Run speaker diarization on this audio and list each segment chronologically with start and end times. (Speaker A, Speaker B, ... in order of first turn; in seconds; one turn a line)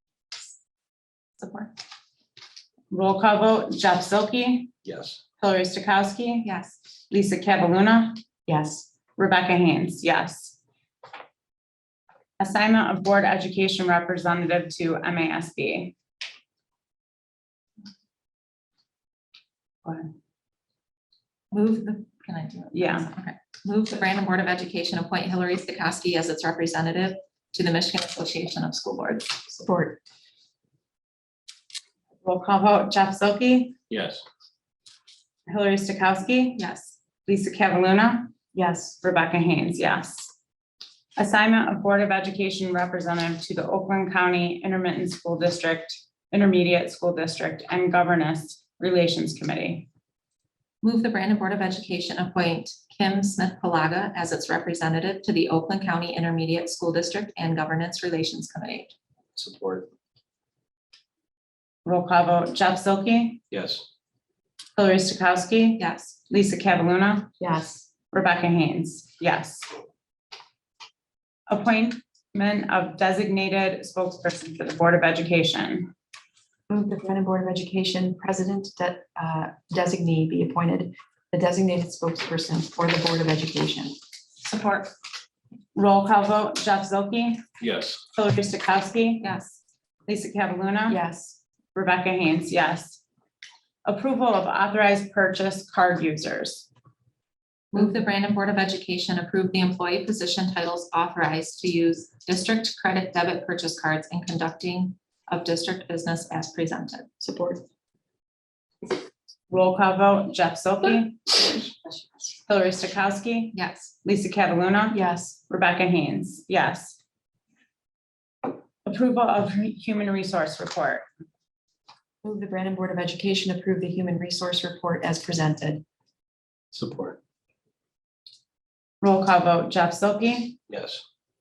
Speaker A: 1.4-1.7
Speaker B: 2.9-4.7
Speaker C: 4.9-5.2
Speaker B: 5.4-6.5
Speaker A: 6.5-6.8
Speaker B: 7.1-8.2
Speaker D: 8.5-8.9
Speaker B: 9.2-10.6
Speaker B: 12.4-15.9
Speaker B: 19.8-20.1
Speaker A: 21.5-29.3
Speaker B: 22.7-23.1
Speaker D: 29.5-30.0
Speaker B: 32.2-33.8
Speaker C: 33.9-34.2
Speaker B: 35.5-36.6
Speaker A: 36.6-37.0
Speaker B: 37.2-38.3
Speaker D: 38.5-39.0
Speaker B: 39.0-40.3
Speaker B: 41.1-49.9
Speaker A: 50.8-58.9
Speaker C: 59.4-59.9
Speaker B: 61.8-63.4
Speaker C: 63.5-63.8
Speaker B: 64.8-67.3
Speaker A: 65.8-66.2
Speaker D: 67.4-67.9
Speaker B: 68.1-69.7
Speaker B: 71.5-75.9
Speaker D: 76.7-84.0
Speaker A: 84.4-84.9
Speaker B: 85.7-87.4
Speaker C: 87.6-88.0
Speaker B: 88.1-89.2
Speaker A: 89.2-89.6
Speaker B: 90.1-91.0
Speaker D: 90.9-91.4
Speaker B: 91.7-93.0
Speaker B: 93.8-96.7
Speaker A: 97.7-107.1
Speaker D: 107.2-107.6
Speaker B: 109.5-111.4
Speaker B: 112.5-117.0
Speaker A: 113.5-113.9
Speaker D: 114.9-115.4
Speaker B: 118.8-121.0
Speaker D: 122.2-125.8
Speaker C: 126.7-127.2
Speaker B: 129.0-130.6
Speaker C: 130.7-131.0